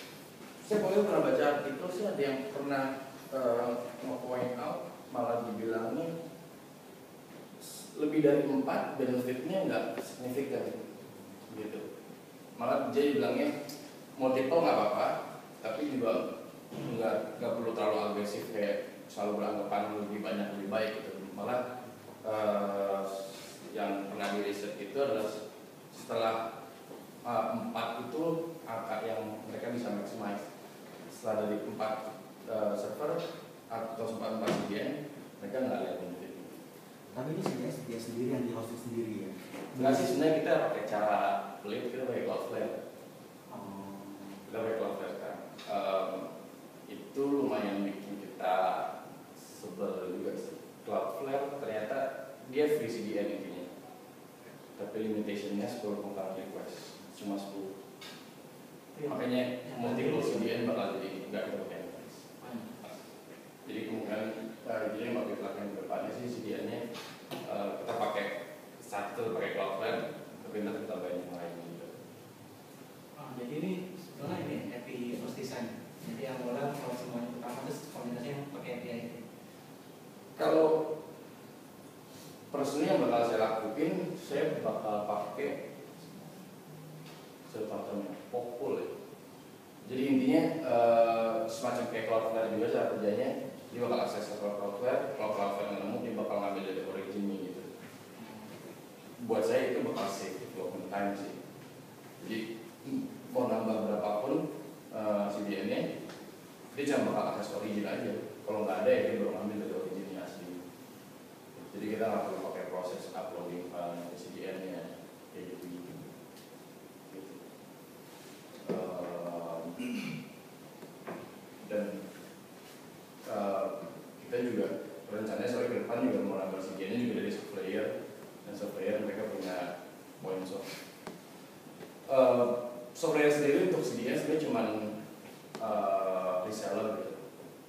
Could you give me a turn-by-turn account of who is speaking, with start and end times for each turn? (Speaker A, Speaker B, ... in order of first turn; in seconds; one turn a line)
Speaker A: 0.6-6.1
Speaker A: 7.6-10.8
Speaker A: 11.5-11.8
Speaker A: 12.6-13.5
Speaker A: 14.2-21.6
Speaker A: 22.2-25.4
Speaker A: 25.9-26.4
Speaker A: 27.2-30.4
Speaker A: 31.1-36.6
Speaker B: 37.1-40.0
Speaker A: 39.7-42.8
Speaker B: 43.5-44.4
Speaker A: 44.5-46.3
Speaker A: 46.9-53.7
Speaker A: 54.8-57.7
Speaker C: 59.0-60.5
Speaker A: 59.1-62.2
Speaker C: 62.4-62.7
Speaker A: 63.6-66.8
Speaker A: 67.4-72.0
Speaker C: 73.2-79.2
Speaker A: 80.4-80.9
Speaker A: 82.5-85.6
Speaker A: 87.5-88.9
Speaker A: 89.8-97.7
Speaker C: 98.2-98.5
Speaker A: 99.2-101.4
Speaker A: 102.2-105.9
Speaker A: 106.7-110.6
Speaker A: 111.5-116.0
Speaker A: 117.1-117.4
Speaker A: 118.6-119.8
Speaker A: 121.6-122.0
Speaker A: 123.2-127.9
Speaker A: 128.4-130.7
Speaker A: 132.1-135.0
Speaker A: 135.6-137.2